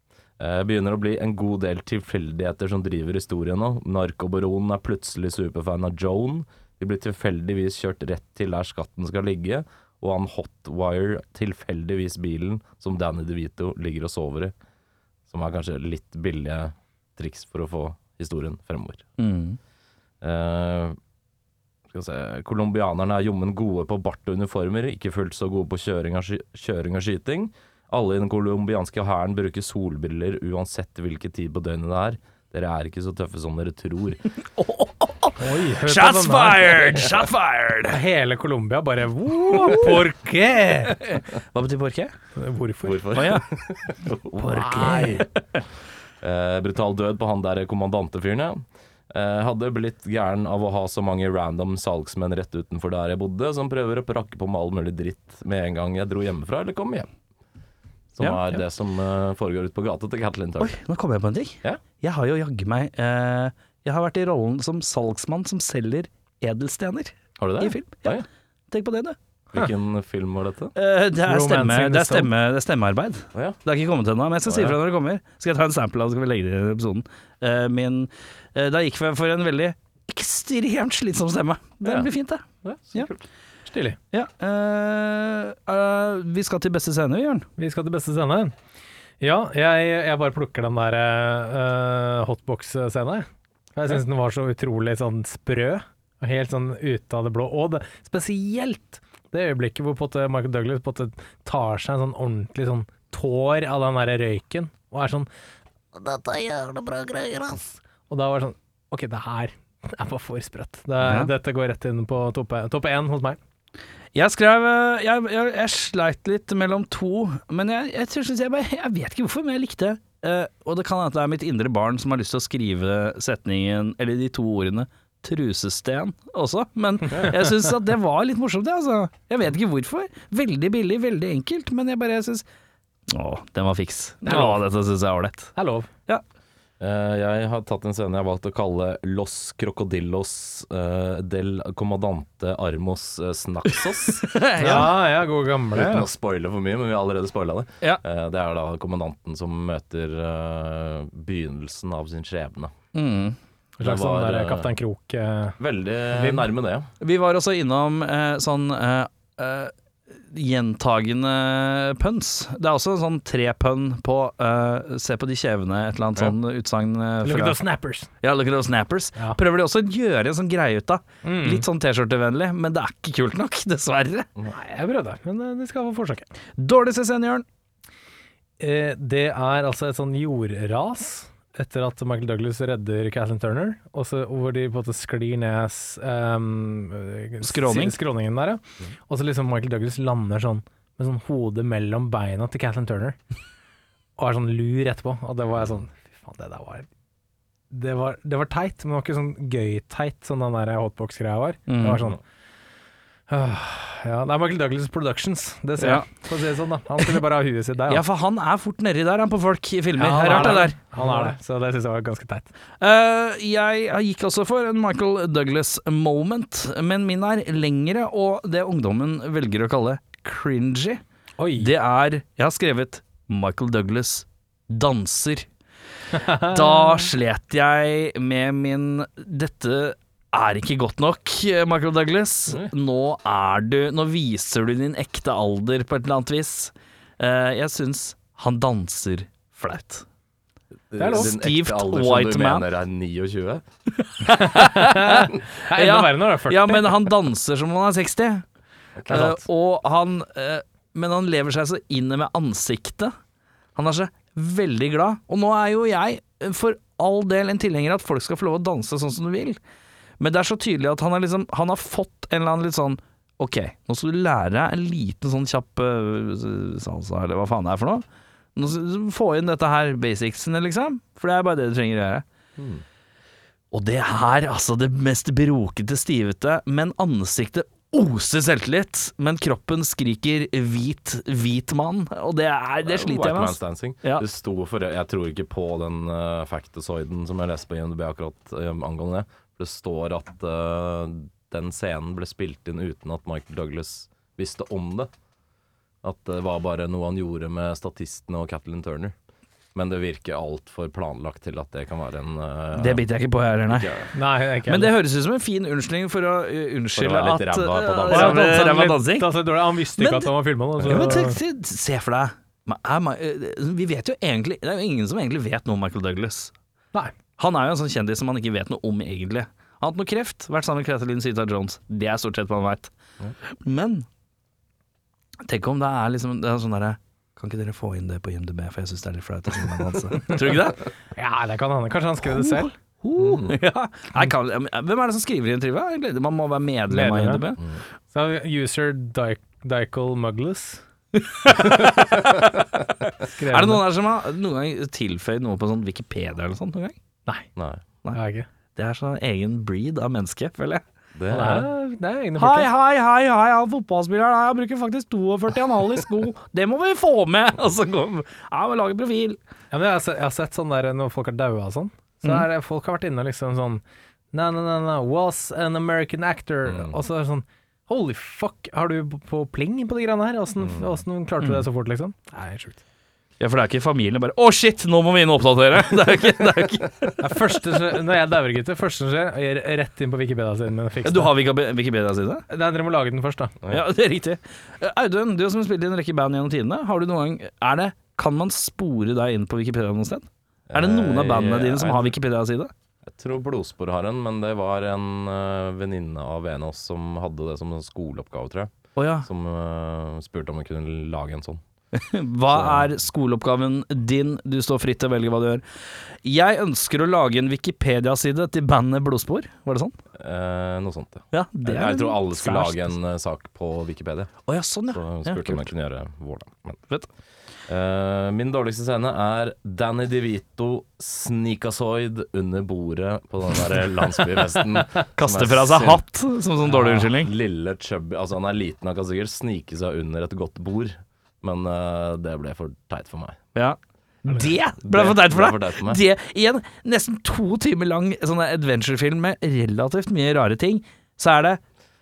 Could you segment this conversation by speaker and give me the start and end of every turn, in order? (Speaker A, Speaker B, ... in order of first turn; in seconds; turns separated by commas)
Speaker A: 0.4-14.5, Speaker A: 15.3-19.1, Speaker B: 19.2-19.6, Speaker A: 20.2-21.0, Speaker A: 21.9-34.2, Speaker B: 34.4-38.0, Speaker C: 35.4-37.1, Speaker C: 37.9-41.1, Speaker B: 39.5-40.0, Speaker B: 41.0-42.1, Speaker C: 42.4-43.1, Speaker A: 42.8-45.3, Speaker B: 43.1-43.5, Speaker B: 44.4-45.6, Speaker C: 44.5-45.2, Speaker A: 46.2-57.1, Speaker A: 58.1-60.7, Speaker B: 58.2-58.5, Speaker B: 60.6-69.2, Speaker A: 67.4-68.3, Speaker A: 69.5-70.7, Speaker B: 70.8-83.1, Speaker C: 71.2-72.3, Speaker A: 74.5-74.8, Speaker A: 81.8-82.1, Speaker A: 82.6-83.2, Speaker C: 83.7-84.0, Speaker B: 84.1-87.5, Speaker C: 87.6-88.5, Speaker C: 89.2-105.3, Speaker C: 106.0-113.4, Speaker B: 111.0-111.3, Speaker B: 114.1-132.4, Speaker B: 133.1-135.5, Speaker C: 134.3-134.6, Speaker C: 135.6-135.9, Speaker A: 136.8-144.9, Speaker B: 143.7-144.9, Speaker C: 144.6-146.1, Speaker A: 145.7-152.7, Speaker B: 152.9-153.4, Speaker C: 153.8-155.6, Speaker A: 153.8-154.7, Speaker A: 155.6-156.9, Speaker C: 156.1-156.5, Speaker B: 157.0-167.6, Speaker C: 167.2-168.1, Speaker B: 168.2-174.3, Speaker C: 171.2-171.6, Speaker C: 174.5-176.3, Speaker B: 176.6-177.4, Speaker C: 178.6-193.2, Speaker B: 187.4-188.0, Speaker C: 194.2-196.9, Speaker C: 197.7-202.2, Speaker B: 201.7-202.0, Speaker C: 203.3-208.0, Speaker B: 205.8-206.1, Speaker B: 207.9-211.3, Speaker C: 210.0-212.5, Speaker B: 212.8-221.0, Speaker C: 221.4-221.7, Speaker B: 221.6-225.5, Speaker C: 226.1-227.0, Speaker B: 226.1-240.1, Speaker A: 240.9-243.6, Speaker C: 241.0-241.3, Speaker B: 241.1-242.7, Speaker B: 244.0-248.4, Speaker C: 244.4-246.9, Speaker A: 249.0-249.4, Speaker B: 249.1-253.1, Speaker B: 253.8-259.6, Speaker B: 260.2-268.1, Speaker B: 268.6-272.2, Speaker A: 272.6-272.8, Speaker B: 273.7-284.2, Speaker A: 282.9-295.1, Speaker A: 296.0-299.1, Speaker A: 299.7-303.1, Speaker B: 302.8-303.9, Speaker A: 303.7-304.1, Speaker C: 304.1-304.9, Speaker B: 304.7-309.3, Speaker A: 306.9-308.6, Speaker C: 308.1-311.4, Speaker B: 309.9-310.3, Speaker B: 310.8-316.5, Speaker B: 317.4-322.9, Speaker B: 323.5-324.1, Speaker B: 325.4-330.9, Speaker C: 331.1-332.7, Speaker B: 332.3-337.6, Speaker A: 333.2-333.6, Speaker C: 336.9-337.4, Speaker C: 338.1-340.8, Speaker B: 341.2-342.4, Speaker C: 343.3-343.8, Speaker B: 343.4-347.0, Speaker A: 347.6-347.8, Speaker C: 348.1-348.5, Speaker B: 348.7-350.8, Speaker A: 351.1-351.7, Speaker C: 351.3-352.7, Speaker B: 352.4-359.4, Speaker C: 359.7-363.8, Speaker C: 364.3-372.8, Speaker A: 366.7-367.0, Speaker A: 370.6-371.0, Speaker B: 373.4-377.4, Speaker C: 377.2-381.3, Speaker B: 381.0-382.4, Speaker C: 382.5-383.6, Speaker B: 383.7-392.7, Speaker A: 390.7-392.1, Speaker A: 393.1-398.7, Speaker B: 398.9-399.3, Speaker A: 399.2-401.6, Speaker B: 401.9-405.6, Speaker A: 402.5-402.9, Speaker B: 406.2-410.0, Speaker A: 410.1-414.4, Speaker B: 411.3-412.9, Speaker B: 414.4-415.7, Speaker A: 414.9-416.8, Speaker A: 417.7-426.0, Speaker B: 425.2-427.3, Speaker A: 426.6-433.4, Speaker B: 433.6-441.6, Speaker A: 434.8-436.0